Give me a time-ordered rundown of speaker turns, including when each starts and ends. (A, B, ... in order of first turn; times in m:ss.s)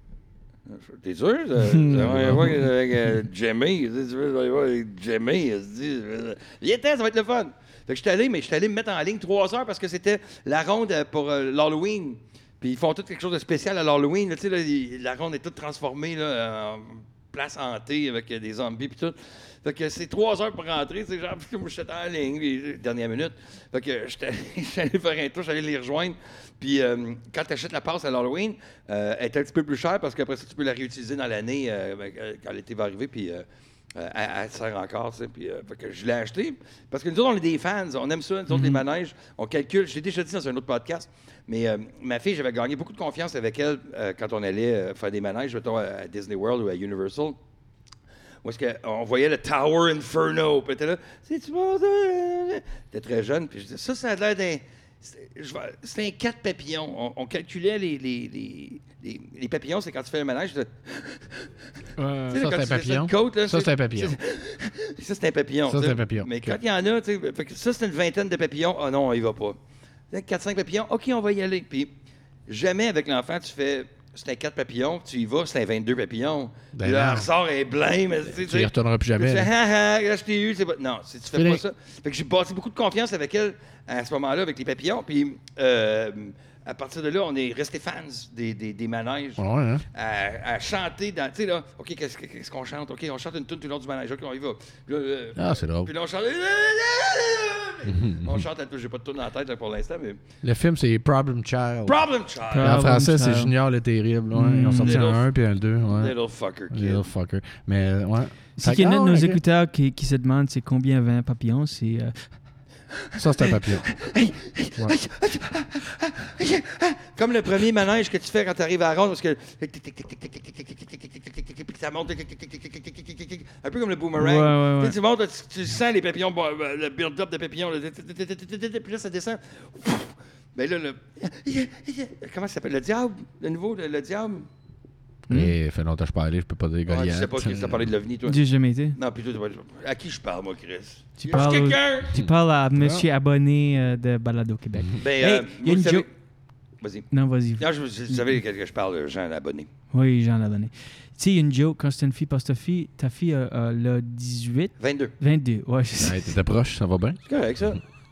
0:00.7-0:47.4 A
0:01.6-0:02.6 B
0:02.1-0:02.4 C
0:38.5-0:38.8 B
0:48.4-1:01.5 A
1:02.0-1:02.4 B
1:02.3-1:09.6 A
1:02.3-1:04.2 C
1:05.7-1:06.6 C
1:10.1-1:11.9 A
1:12.5-1:29.4 A
1:16.7-1:17.3 C
1:18.3-1:19.5 C
1:21.3-1:21.6 C
1:29.4-1:29.8 C
1:29.9-1:40.2 A
1:35.4-1:35.9 C
1:37.8-1:38.4 C
1:40.4-1:42.0 C
1:41.8-1:42.7 A
1:42.5-1:43.5 B
1:42.6-1:46.1 C
1:44.3-1:45.0 B
1:44.7-1:45.2 A
1:45.9-1:47.1 A
1:46.7-1:49.4 C
1:48.6-1:52.1 B
1:53.2-1:53.9 C
1:53.5-2:14.5 A
2:04.2-2:04.9 B
2:15.3-2:15.5 B
2:15.3-2:17.9 C
2:16.9-2:18.4 A
2:18.2-2:19.0 B
2:19.0-2:22.1 A
2:21.2-2:26.0 B
2:22.1-2:23.0 C
2:25.0-2:26.0 A
2:26.8-2:29.7 A
2:27.1-2:28.2 B
2:29.9-2:36.4 B
2:34.8-2:35.1 A
2:36.0-2:37.2 C
2:37.3-2:37.8 A